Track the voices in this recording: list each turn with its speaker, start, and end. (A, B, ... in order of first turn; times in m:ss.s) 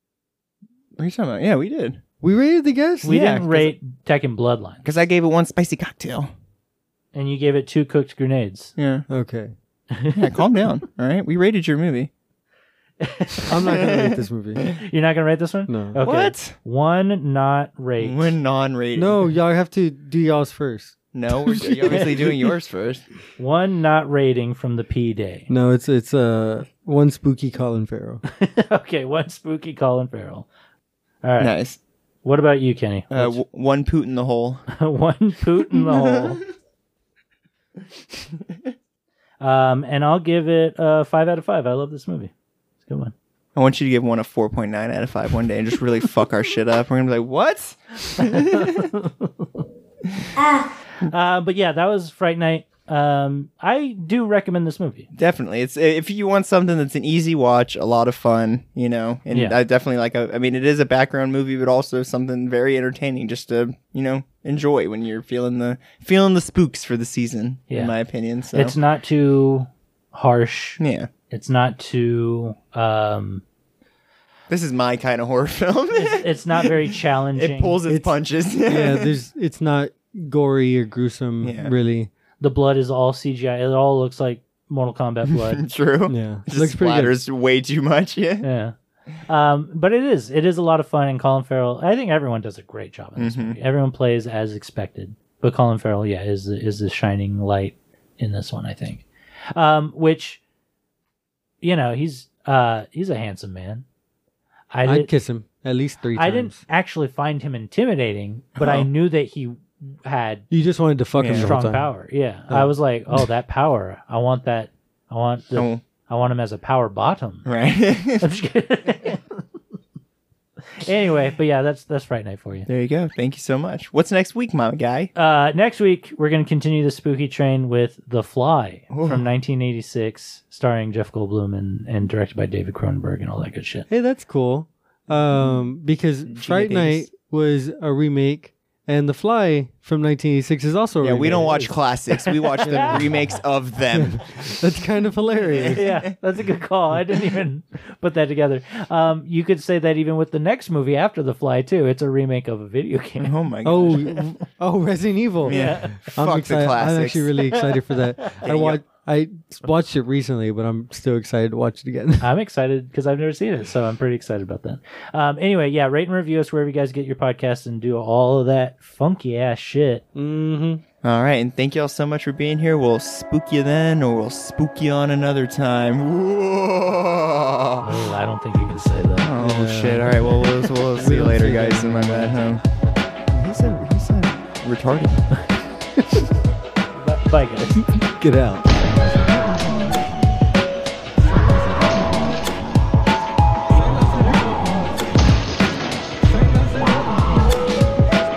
0:01.0-0:02.0 A
0:02.2-0:03.4 B
0:03.0-0:04.8 C
0:03.0-0:03.7 A
0:04.8-0:06.3 A
0:07.1-0:08.7 C
0:08.8-0:09.1 A
0:09.1-0:09.5 B
0:09.9-0:10.2 C
0:10.1-0:12.1 A
0:13.0-0:13.9 C
0:13.5-0:14.7 B
0:13.8-0:14.1 A
0:14.8-0:18.4 C
0:15.7-0:16.0 B
0:16.0-0:16.6 A
0:18.0-0:19.2 A
0:18.9-0:22.3 B
0:21.1-0:23.0 A
0:23.4-0:25.5 C
0:25.5-0:28.2 B
0:28.3-0:30.5 C
0:31.2-0:31.5 C
0:31.4-0:31.8 A
0:32.2-0:33.4 C
0:33.1-0:34.7 A
0:34.7-0:36.4 C
0:35.8-0:36.4 A
0:39.4-0:42.3 C
0:42.9-0:43.1 C
0:43.6-0:48.9 A
0:48.2-0:49.5 C
0:51.0-0:55.1 C
0:55.2-1:08.8 A
1:08.5-1:10.8 C
1:10.8-1:11.1 A
1:11.3-1:13.4 C
1:14.5-1:16.7 A
1:15.9-1:17.8 C
1:17.3-1:19.1 A
1:17.9-1:22.1 B
1:21.4-1:21.7 A
1:22.4-1:25.6 C
1:25.5-1:28.5 A
1:26.1-1:27.2 B
1:28.4-1:40.4 C
1:33.2-1:33.6 A
1:41.6-1:43.8 C
1:44.7-1:45.1 C
1:44.8-1:46.6 B
1:46.2-1:50.5 C
1:48.6-1:48.9 A
1:50.5-1:51.9 B
1:51.2-1:51.5 A
1:51.3-1:57.5 C
1:55.6-1:55.8 A
1:57.5-1:58.2 A
1:58.2-1:59.4 C
2:00.8-2:02.7 C
2:02.7-2:05.1 A
2:05.2-2:13.9 C
2:08.9-2:09.2 A
2:13.9-2:21.7 B
2:16.3-2:17.1 A
2:21.0-2:24.4 A
2:22.1-2:23.0 C
2:22.6-2:23.1 B
2:23.9-2:25.8 B
2:25.5-2:26.0 A
2:25.7-2:34.2 C
2:33.2-2:34.3 A
2:33.6-2:42.3 B
2:35.4-2:37.3 A
2:35.4-2:36.0 C
2:37.5-2:38.3 C
2:38.4-2:38.8 A
2:42.2-2:50.0 C
2:50.2-2:50.8 B
2:51.0-2:57.9 A
2:57.8-2:59.3 C
2:59.2-3:02.6 A
2:59.4-3:02.4 B
3:03.3-3:05.3 A
3:07.0-3:07.9 C
3:08.0-3:10.1 B